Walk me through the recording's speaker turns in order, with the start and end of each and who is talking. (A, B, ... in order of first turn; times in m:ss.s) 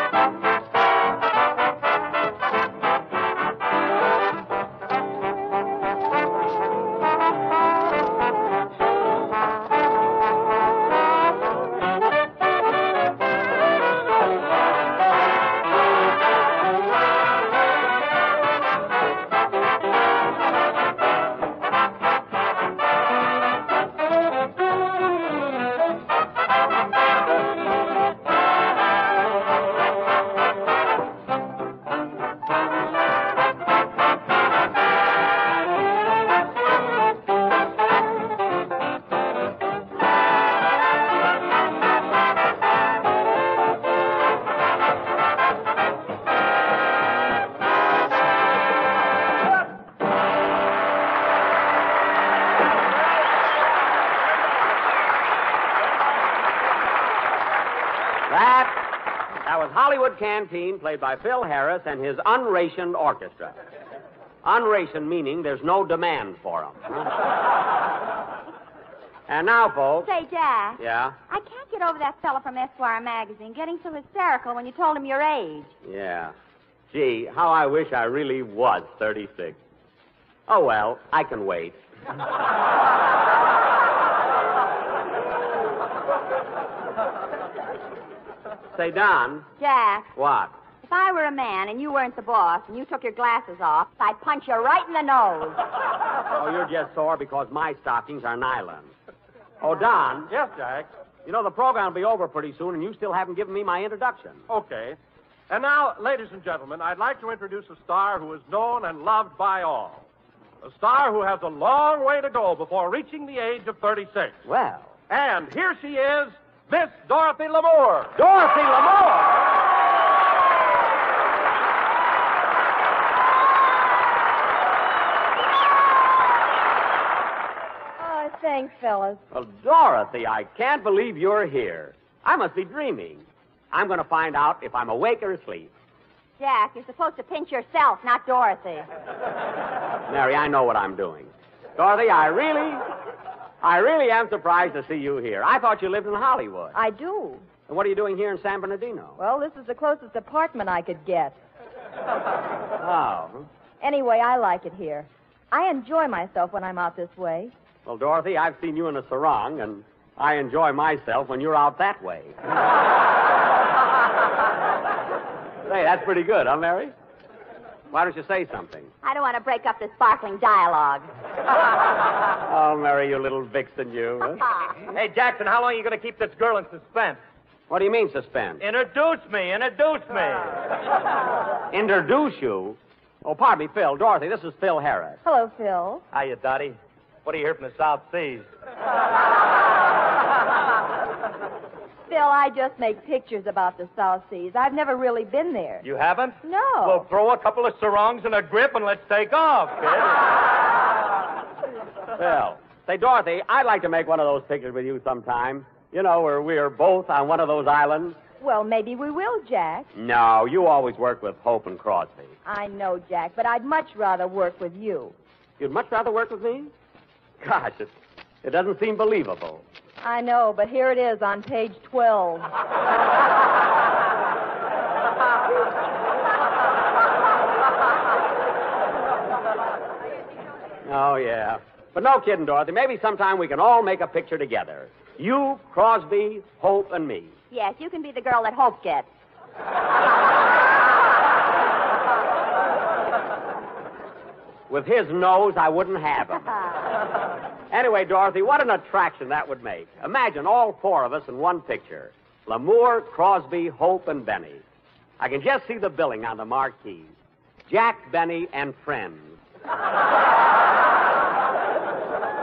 0:58.3-0:58.9 A
0:59.4-1:03.6 A
1:04.4-1:07.3 A
1:09.3-1:10.1 A
1:10.0-1:15.7 B
1:10.8-1:11.2 A
1:15.8-1:16.3 A
1:16.9-1:19.6 A
1:20.5-1:21.8 A
1:28.7-1:29.5 A
1:29.6-1:30.1 B
1:30.1-1:30.5 A
1:30.8-1:35.6 B
1:36.3-1:38.9 A
1:39.6-1:40.3 A
1:40.3-1:40.9 C
1:41.2-1:44.4 A
1:44.5-1:45.0 C
1:45.5-1:50.1 C
1:50.6-1:54.4 C
1:54.4-1:54.9 A
1:55.1-1:58.1 C
1:58.2-1:59.5 A
2:08.0-2:09.2 D
2:09.3-2:15.7 A
2:16.4-2:18.9 B
2:20.1-2:22.8 A
2:23.6-2:26.7 A
2:26.7-2:27.4 D
2:27.7-2:29.2 A
2:29.2-2:31.4 D
2:32.8-2:33.5 A
2:33.8-2:37.5 D
2:37.8-2:42.4 A
2:45.6-2:46.9 A
2:47.9-2:48.9 A
2:49.0-2:51.1 B
2:52.4-2:54.4 A
2:54.9-2:57.2 E
2:57.7-2:58.6 A
2:58.6-3:00.6 E
3:01.7-3:05.2 A
3:05.2-3:06.0 D
3:06.1-3:08.5 E
3:12.1-3:15.8 D
3:15.8-3:20.2 E
3:16.4-3:17.1 D
3:22.1-3:28.2 A
3:28.4-3:29.9 D
3:29.9-3:32.3 A
3:32.4-3:35.1 D
3:35.6-3:36.7 A
3:37.4-3:39.6 A
3:40.0-3:42.5 D
3:50.8-3:57.3 A
3:57.5-3:59.1 B
4:04.7-4:06.5 A
4:07.7-4:14.6 A
4:15.2-4:17.1 A
4:17.7-4:19.4 A